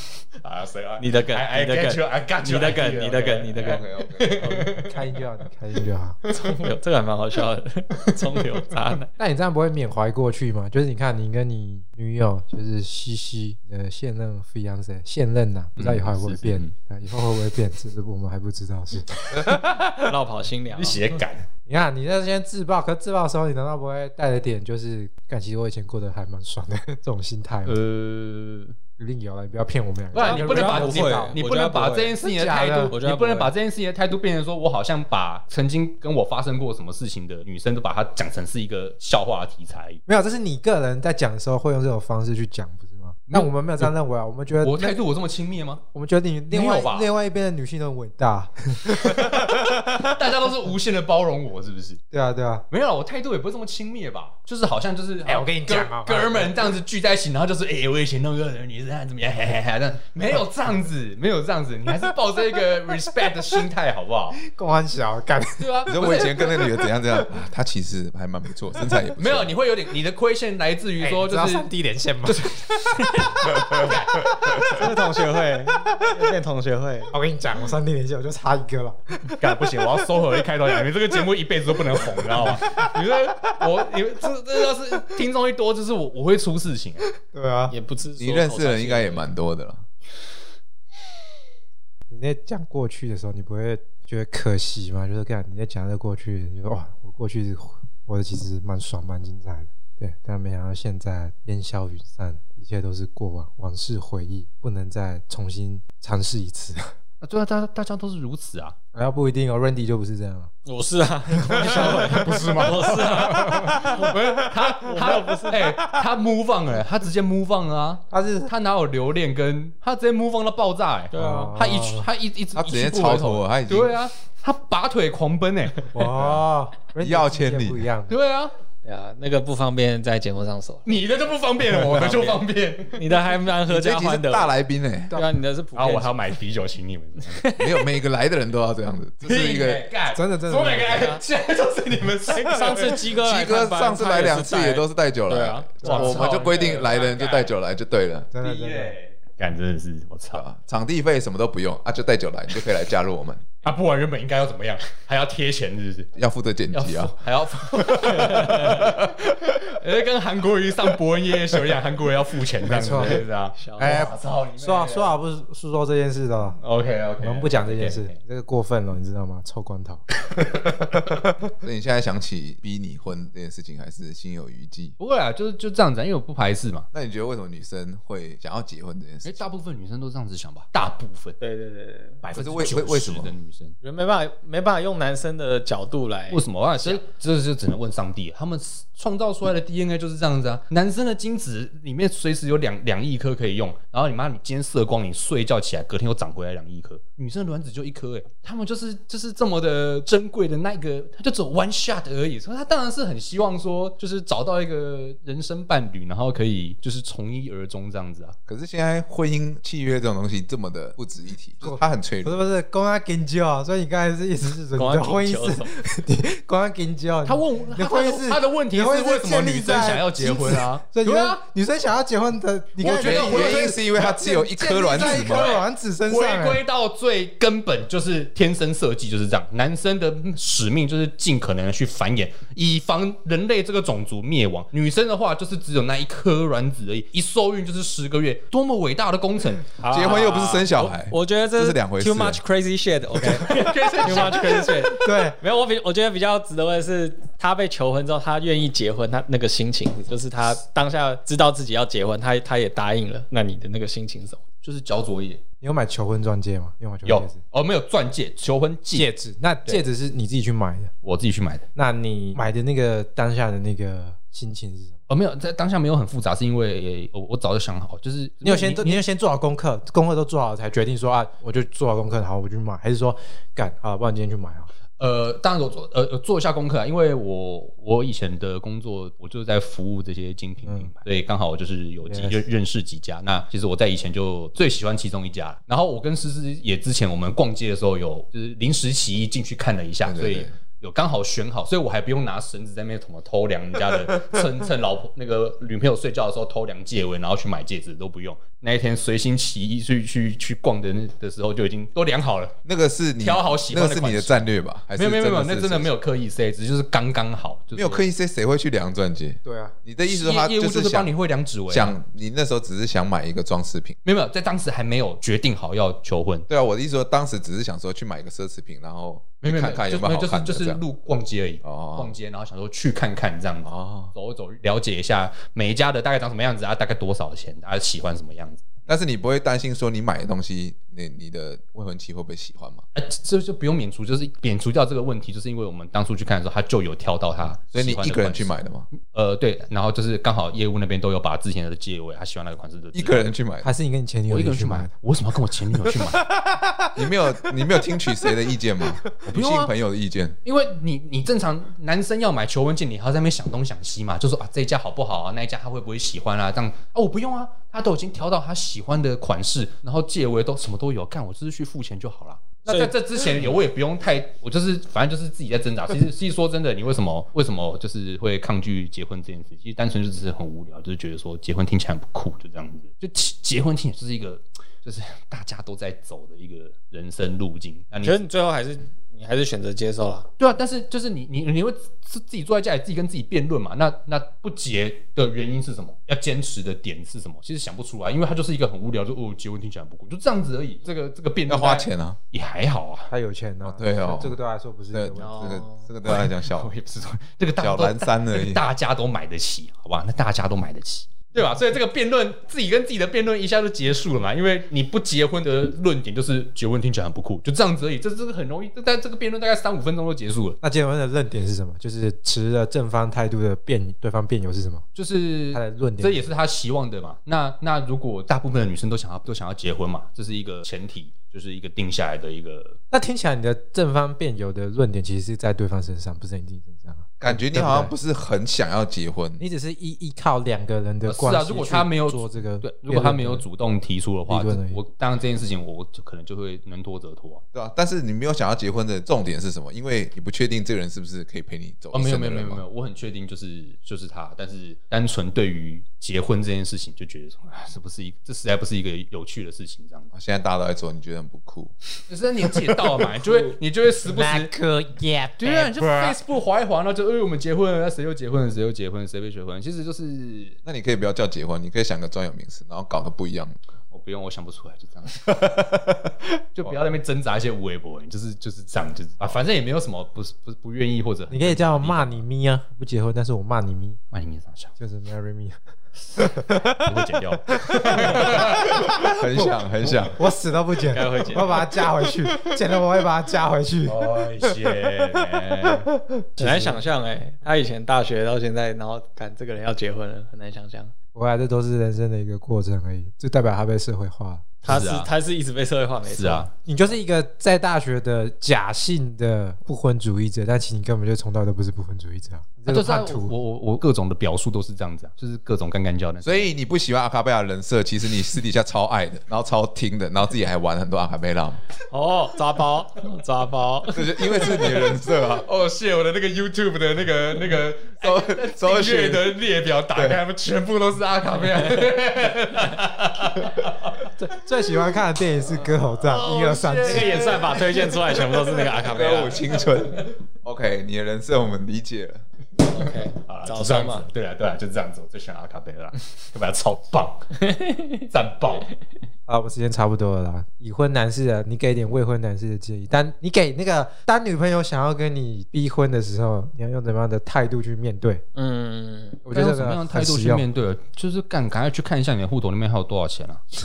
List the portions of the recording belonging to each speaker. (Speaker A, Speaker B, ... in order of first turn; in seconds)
Speaker A: 0.4-4.9, 15.8-16.7, 19.3-20.1, 20.7-21.4, 27.6-28.7, 30.1-40.0, 43.3-43.9, 44.6-45.8, 46.5-47.1, 48.9-52.0, 52.7-64.4, 65.6-66.4, 69.2-71.7, 72.2-73.1, 73.7-74.2, 79.4-87.1, 107.2-108.8, 111.6-126.4, 128.1-128.5, 130.8-133.0, 135.7-137.4, 139.2-143.0, 145.8-147.5, 148.4-150.4, 153.6-156.1, 156.7-165.1, 166.6-168.2, 175.0-176.8, 179.2-181.4, 182.2-183.8, 186.3-208.3, 217.2-221.4, 222.9-224.0, 224.9-240.9, 243.4-244.8, 254.6-255.4, 257.0-259.1, 261.0-261.6, 265.1-269.0, 275.0-302.5, 303.2-308.0, 310.0-311.9, 314.0-316.5, 319.4-328.6, 332.9-343.3, 344.3-346.2, 349.3-349.7, 350.4-378.3, 380.4-393.1, 396.0-410.6, 414.9-422.8, 431.1-437.4, 441.9-450.1, 452.1-454.5, 455.4-460.6, 463.9-465.6, 466.5-472.2, 474.1-474.7, 476.1-478.7, 483.8-485.9, 494.6-495.1, 496.1-496.5, 502.7-506.5, 515.3-524.1, 526.0-527.7, 533.2-537.3, 538.1-538.7, 549.3-553.4
Speaker B: 1.0-4.7, 6.3-9.1, 19.4-21.1, 30.1-32.2, 32.9-33.5, 74.6-77.1, 87.7-89.2, 110.6-115.7, 121.1-121.5, 128.8-130.9, 131.8-132.4, 132.9-134.5, 135.1-136.2, 137.3-137.9, 140.9-141.2, 142.3-146.8, 157.8-158.9, 163.0-164.1, 181.4-182.2, 183.8-187.0, 214.7-215.7, 239.8-254.4, 378.0-380.3, 395.1-395.9, 480.9-481.8, 486.4-490.9, 494.6-496.5, 511.9-514.7, 526.8-529.5, 532.6-534.0, 537.4-538.0, 548.3-549.2
Speaker C: 3.6-4.5, 65.8-69.5, 88.2-89.8, 122.5-123.9, 127.0-127.9, 133.7-135.1, 137.6-139.8, 143.2-148.3, 150.3-153.4, 156.1-157.1, 158.7-159.7, 171.6-174.9, 176.9-179.4, 182.3-183.3, 208.5-212.4, 222.8-225.5, 239.9-242.4, 290.0-290.5, 302.6-305.9, 307.7-311.1, 311.7-314.0, 316.5-320.8, 321.6-322.1, 323.6-324.1, 328.9-332.8, 337.7-338.9, 342.9-343.7, 346.9-350.4, 391.5-392.2, 393.6-394.4, 394.9-396.7, 397.6-398.6, 427.2-429.4, 437.5-442.6, 450.1-451.7, 452.6-453.0, 460.6-463.6, 465.4-465.8, 478.2-480.2, 506.2-511.6, 513.9-515.5, 518.0-519.4, 519.9-520.2, 528.7-532.2
Speaker D: 4.8-6.2, 9.2-19.1, 21.7-27.8, 29.0-31.4, 32.2-33.0, 40.1-45.0, 45.9-50.1, 52.1-52.6, 55.2-56.6, 64.5-65.7, 66.4-66.7, 71.0-74.9, 77.1-79.5, 82.0-82.9, 87.3-87.7, 92.1-106.8, 108.9-110.5, 111.3-112.5, 113.4-113.9, 118.1-118.5, 121.1-122.1, 125.9-128.2, 140.1-141.2, 145.8-146.3, 148.3-148.9, 162.6-163.2, 163.8-166.6, 167.2-171.2, 211.6-226.6, 244.0-245.3, 255.6-257.4, 258.9-260.9, 261.8-265.0, 268.4-274.7, 280.6-280.9, 282.1-282.4, 309.4-309.7, 343.6-344.9, 345.9-346.9, 348.0-348.4, 393.1-395.6, 410.6-414.9, 415.5-416.2, 422.9-427.9, 429.4-433.4, 434.3-434.8, 454.1-456.2, 471.3-474.0, 474.8-475.6, 476.2-477.0, 477.5-484.9, 485.6-486.8, 491.1-494.5, 496.6-503.3, 524.2-527.4, 539.3-548.2, 549.2-550.4